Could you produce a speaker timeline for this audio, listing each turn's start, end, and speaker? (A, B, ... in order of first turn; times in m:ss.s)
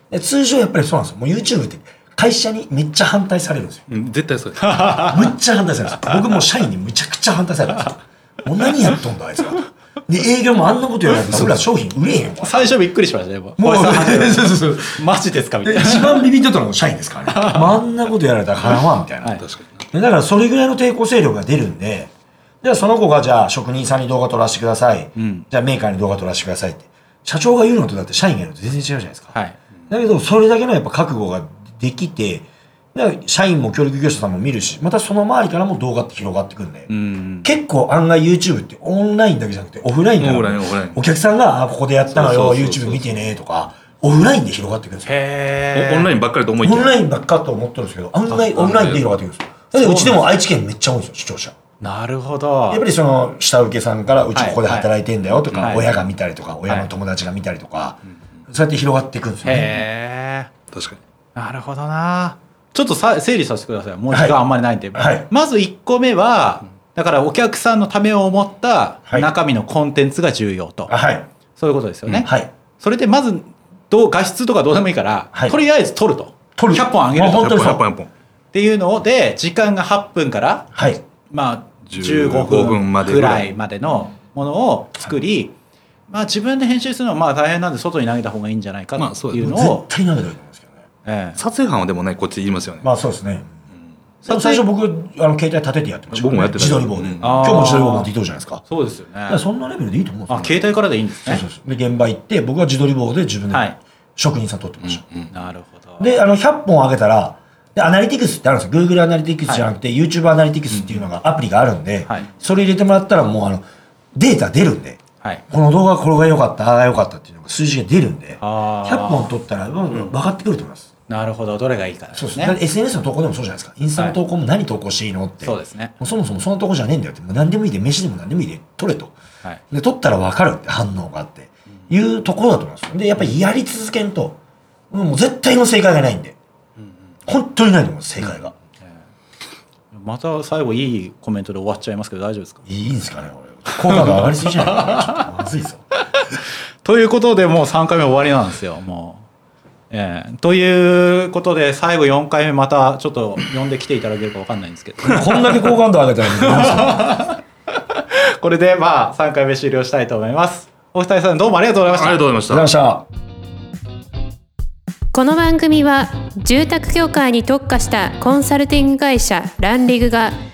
0:00.1-0:03.8 A
0:03.9-0:05.0 B
0:04.6-0:05.1 C
0:05.0-0:12.6 A
0:11.2-0:11.6 C
0:12.4-0:16.2 C
0:13.6-0:15.0 A
0:15.6-0:19.4 A
0:17.3-0:17.7 C
0:19.4-0:19.8 B
0:19.9-0:22.1 A
0:22.6-0:29.3 A
0:25.2-0:25.4 C
0:29.9-0:36.9 A
0:36.9-0:37.5 C
0:37.4-0:45.2 A
0:40.2-0:41.0 B
0:42.1-0:43.2 B
0:45.0-0:46.1 C
0:45.7-0:47.0 B
0:46.6-0:51.5 A
0:48.3-0:49.0 C
0:48.7-0:49.0 B
0:49.7-0:50.2 C
0:51.8-0:52.8 C
0:52.7-0:59.8 A
0:54.3-0:54.9 C
0:55.6-0:55.9 C
0:59.4-1:00.5 C
1:00.7-1:01.0 B
1:01.4-1:10.9 C
1:04.1-1:04.4 A
1:04.9-1:05.3 A
1:09.1-1:09.3 A
1:10.9-1:11.3 A
1:11.5-1:17.8 C
1:16.6-1:17.8 A
1:17.4-1:18.1 B
1:18.5-1:20.7 C
1:20.7-1:21.0 A
1:21.3-1:25.5 C
1:21.9-1:23.5 B
1:26.1-1:29.9 C
1:29.0-1:29.5 B
1:29.3-1:30.7 A
1:31.0-1:31.4 C
1:31.4-1:32.9 B
1:32.8-1:33.5 A
1:34.2-1:34.6 C
1:34.2-1:38.6 A
1:36.1-1:37.6 B
1:37.2-1:38.1 C
1:38.6-1:39.4 C
1:39.3-1:40.7 A
1:40.3-1:41.4 C
1:41.2-1:45.0 A
1:44.8-1:45.3 B
1:45.3-1:46.1 C
1:46.0-1:53.6 A
1:54.1-1:55.0 A
1:55.5-2:00.9 A
1:58.4-1:59.3 C
2:01.1-2:02.6 C
2:02.1-2:09.1 A
2:05.4-2:05.9 C
2:09.7-2:14.4 A
2:14.9-2:16.4 A
2:17.3-2:18.5 A
2:19.9-2:22.6 C
2:22.7-2:25.8 A
2:23.8-2:25.2 C
2:26.8-2:29.2 C
2:29.9-2:35.7 C
2:35.0-2:37.3 A
2:36.4-2:37.4 C
2:37.9-2:42.2 C
2:41.9-2:42.7 B
2:42.5-2:43.1 A
2:45.1-2:50.3 D